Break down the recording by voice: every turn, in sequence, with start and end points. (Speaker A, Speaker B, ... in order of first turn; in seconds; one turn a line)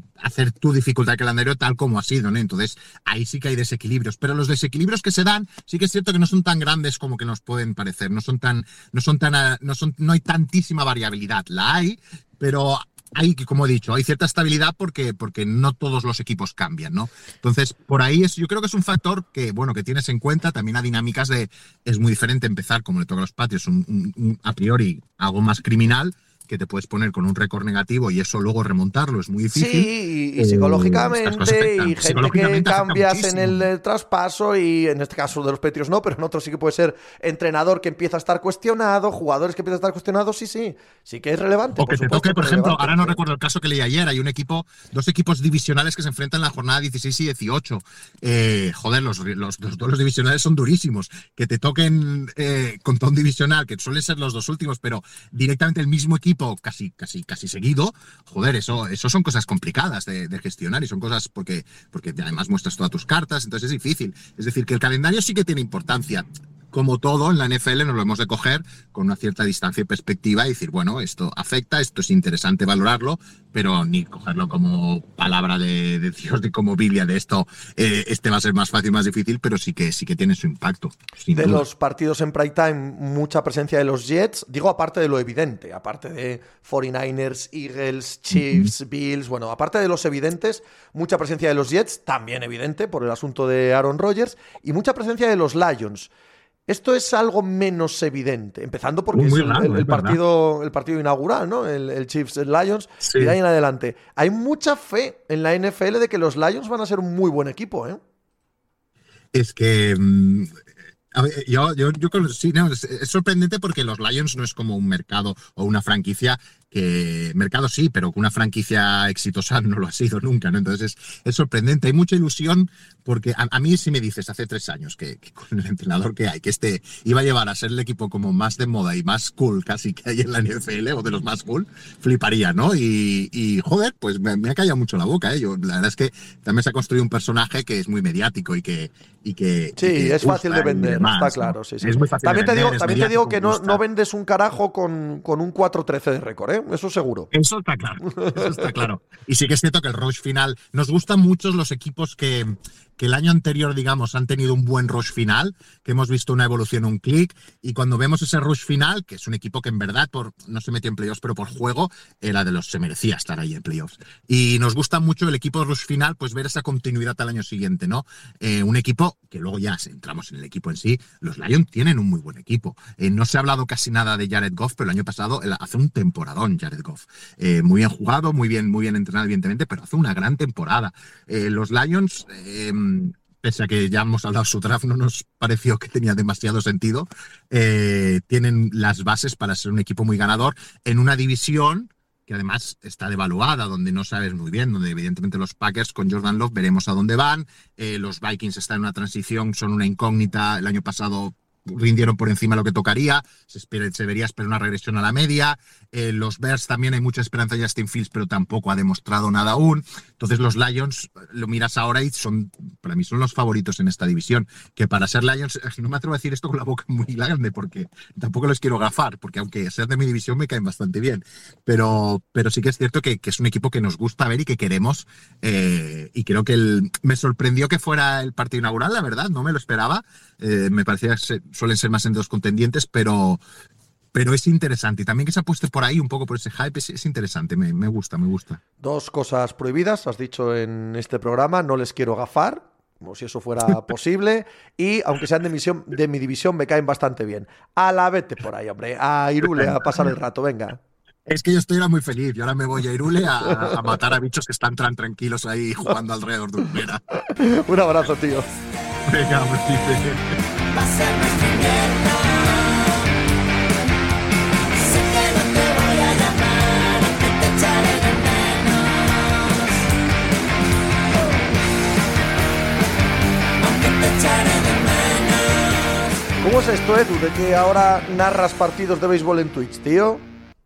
Speaker A: 0.2-33.7
Speaker B: 29.5-43.2
Speaker A: 41.8-81.6
Speaker B: 81.3-96.1
Speaker A: 88.3-88.7
Speaker B: 96.7-108.0
Speaker A: 99.1-100.2
Speaker A: 103.0-103.3
Speaker A: 109.3-110.6
Speaker A: 111.1-143.8
Speaker B: 139.8-147.3
Speaker A: 147.3-233.4
Speaker B: 148.0-148.7
Speaker A: 234.1-238.6
Speaker B: 238.8-250.8
Speaker A: 249.4-250.1
Speaker A: 251.3-257.0
Speaker B: 253.4-253.9
Speaker B: 257.3-258.5
Speaker A: 259.0-260.2
Speaker C: 260.7-263.1
Speaker C: 264.7-269.6
Speaker C: 273.6-276.1
Speaker B: 276.4-280.2